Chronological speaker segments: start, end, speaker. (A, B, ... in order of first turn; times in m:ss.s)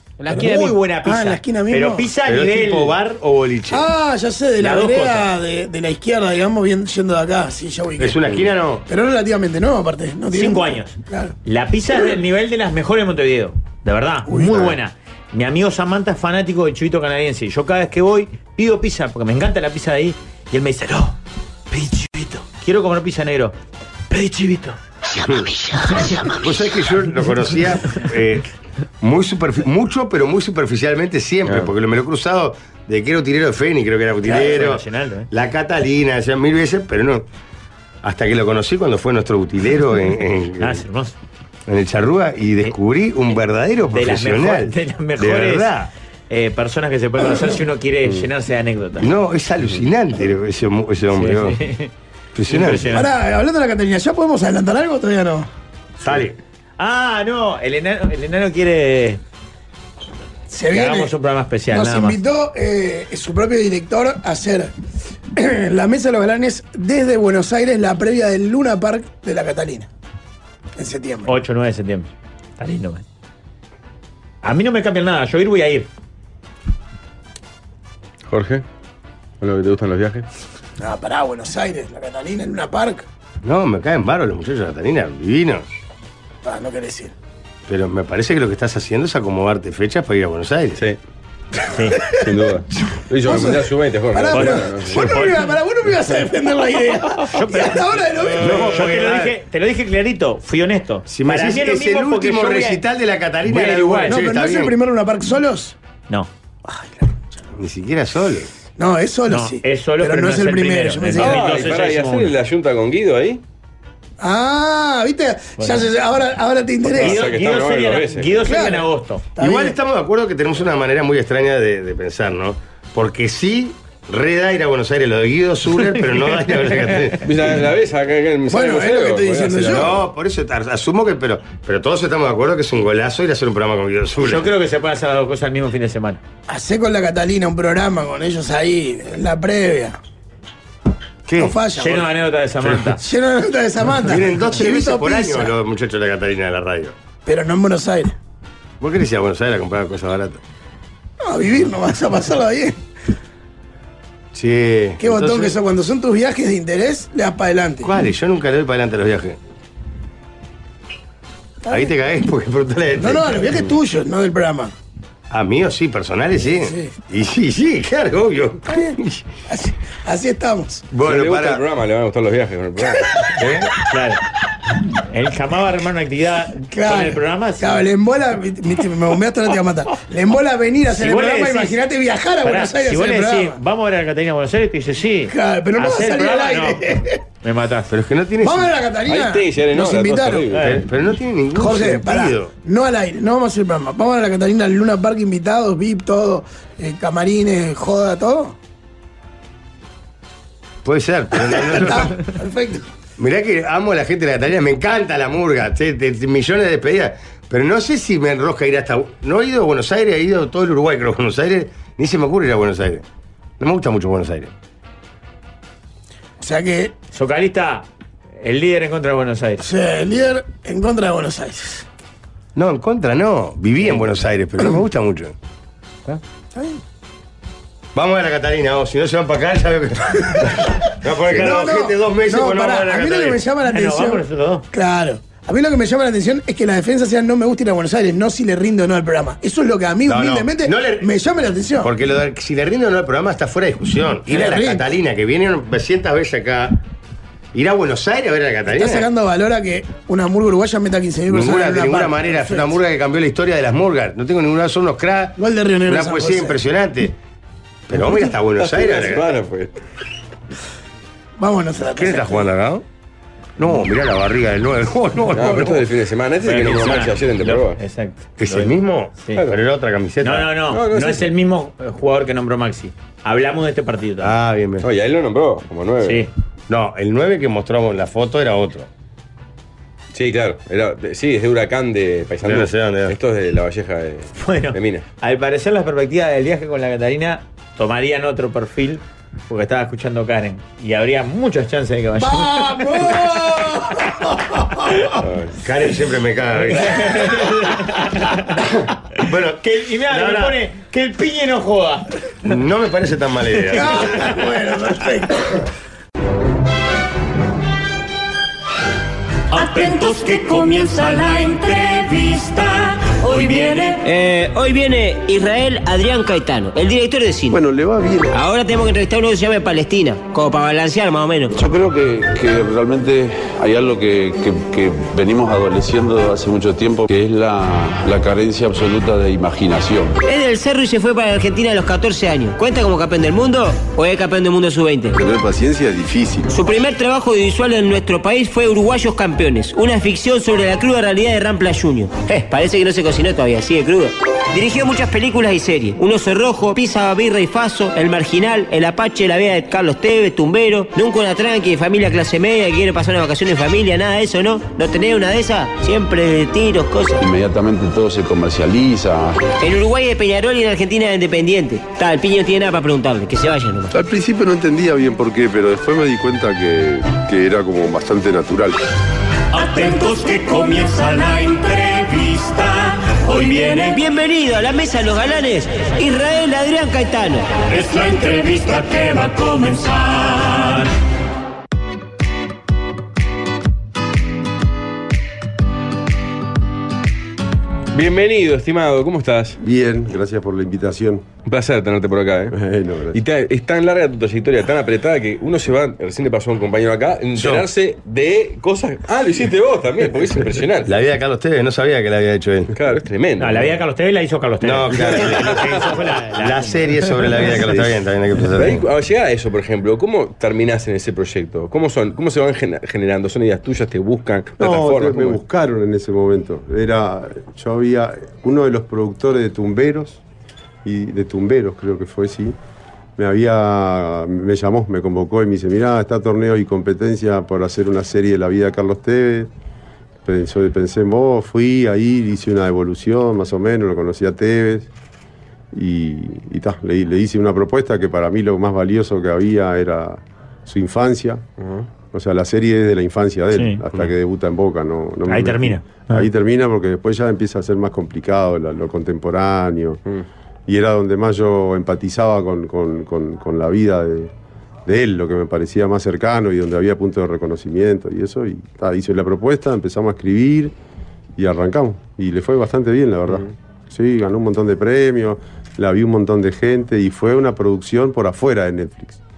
0:00.2-0:00.8 A
0:00.3-0:03.2 B
0:01.0-0:02.1 C
0:02.2-0:03.9 D
0:03.7-0:11.4 C
0:04.6-0:05.3 B
0:08.0-0:08.8 D
0:10.3-0:21.2 B
0:14.3-0:14.8 C
0:21.7-0:23.6 B
0:24.1-0:24.8 B
0:25.2-0:25.5 D
0:26.0-0:28.5 D
0:29.0-0:37.2 D
0:34.2-0:35.3 B
0:38.0-0:40.8 D
0:40.6-0:41.1 B
0:41.7-0:45.9 D
0:43.9-0:45.7 B
0:46.3-0:49.1 B
0:49.0-0:51.6 D
0:51.1-0:51.9 B
0:52.4-0:52.9 D
0:52.5-0:53.1 B
0:52.9-0:55.5 C
0:56.0-0:56.4 D
0:56.8-0:59.2 B
1:00.5-1:01.1 C
1:00.7-1:02.2 B
1:01.7-1:04.7 C
1:05.3-1:09.9 C
1:10.8-1:11.4 C
1:11.3-1:13.0 B
1:14.4-1:15.9 B
1:18.3-1:18.6 E
1:19.4-1:20.2 E
1:20.8-1:23.1 C
1:23.4-1:25.7 D
1:26.4-1:27.1 C
1:27.7-1:30.8 D
1:31.7-1:32.0 B
1:32.0-1:32.3 C
1:32.1-1:35.0 E
1:33.2-1:38.9 C
1:34.3-1:35.5 B
1:37.2-1:42.8 B
1:38.4-1:39.3 D
1:41.1-1:44.8 D
1:43.4-1:44.2 B
1:44.1-1:45.8 C
1:47.6-1:48.5 D
1:48.8-1:51.5 C
1:49.3-1:52.3 B
1:51.2-1:53.4 E
1:54.2-1:57.2 C
1:55.6-1:55.9 B
1:57.0-1:58.5 E
1:57.0-1:59.3 B
1:58.4-1:59.8 C
1:59.4-2:07.3 D
2:07.2-2:10.0 E
2:08.5-2:10.1 C
2:09.6-2:14.5 D
2:14.2-2:16.2 B
2:16.5-2:20.0 C
2:21.2-2:21.6 D
2:21.4-2:22.1 C
2:21.8-2:23.0 B
2:23.0-2:25.5 C
2:24.0-2:27.0 D
2:27.3-2:28.2 C
2:28.8-2:30.4 D
2:31.2-2:32.8 C
2:34.3-2:35.5 D
2:35.0-2:37.9 C
2:37.8-2:39.4 D
2:41.6-2:42.0 C
2:41.7-2:43.7 D
2:43.0-2:44.7 C
2:45.3-2:49.2 D
2:46.6-2:47.0 C
2:48.7-2:50.9 C
2:50.9-2:51.6 D
2:51.0-2:53.2 E
2:53.4-2:53.7 D
2:53.9-2:54.2 B
2:55.0-2:57.8 B
2:56.7-3:03.6 C
3:00.9-3:01.8 B
3:02.4-3:07.9 B
3:05.3-3:07.2 C
3:07.9-3:08.7 D
3:08.4-3:10.5 C
3:09.1-3:10.8 E
3:10.5-3:10.8 B
3:10.6-3:12.5 D
3:11.5-3:18.6 C
3:20.8-3:22.3 D
3:21.5-3:22.9 C
3:23.2-3:33.0 D
3:33.6-3:34.5 D
3:36.4-3:36.9 C
3:37.1-3:37.9 B
3:38.4-3:39.7 B
3:39.6-3:41.9 C
3:42.6-3:45.4 D
3:46.6-3:46.8 C
3:47.9-3:53.4 D
3:51.3-4:01.9 C
3:53.7-3:54.6 B
4:00.1-4:01.1 D
4:01.8-4:06.8 D
4:04.3-4:05.0 C
4:07.5-4:09.1 D
4:08.7-4:12.8 C
4:11.3-4:17.2 D
4:15.4-4:16.6 C
4:17.9-4:19.3 D
4:18.6-4:19.7 E
4:21.4-4:22.5 C
4:22.0-4:22.8 D
4:23.6-4:25.9 D
4:25.3-4:27.8 E
4:26.4-4:29.4 B
4:28.4-4:30.6 D
4:30.2-4:34.3 B
4:30.7-4:31.3 E
4:34.2-4:34.9 D
4:34.8-4:36.3 E
4:36.0-4:36.3 B
4:36.7-4:38.9 D
4:40.1-4:45.0 E
4:42.4-4:43.2 D
4:44.4-4:53.7 B
4:52.2-4:55.0 C
4:54.5-4:55.1 B
4:55.2-4:55.6 E
4:55.6-4:57.5 D
4:56.9-4:58.6 B
4:58.8-5:00.6 D
4:59.6-5:02.1 B
5:02.4-5:04.2 D
5:03.7-5:05.5 C
5:09.5-5:14.0 F
5:14.0-5:17.6 A
5:17.5-5:18.4 G
5:18.3-5:21.6 A
5:21.5-5:30.2 H
5:30.2-5:35.2 A
5:35.1-5:36.5 G
5:36.5-5:57.2 A
5:57.2-5:59.4 H
5:59.6-6:03.9 A
6:03.9-6:08.8 G
6:09.5-6:14.0 F
6:13.8-6:17.5 A
6:17.7-6:20.9 F
6:27.9-6:29.6 E
6:29.6-6:31.3 G
6:31.4-6:32.6 E
6:32.5-6:33.2 G
6:33.1-6:40.9 E
6:37.4-6:37.7 D
6:40.8-6:42.7 D
6:42.7-6:43.7 E
6:43.4-6:46.9 B
6:44.6-6:48.8 D
6:48.6-6:55.4 E
6:54.6-7:00.2 G
7:00.8-7:02.6 G
7:03.2-7:09.5 G
7:10.2-7:14.9 G
7:15.7-7:21.5 G
7:22.1-7:30.0 G
7:23.5-7:23.8 B
7:25.3-7:26.3 B
7:30.7-7:34.3 G
7:34.9-7:40.7 G
7:41.4-7:49.2 G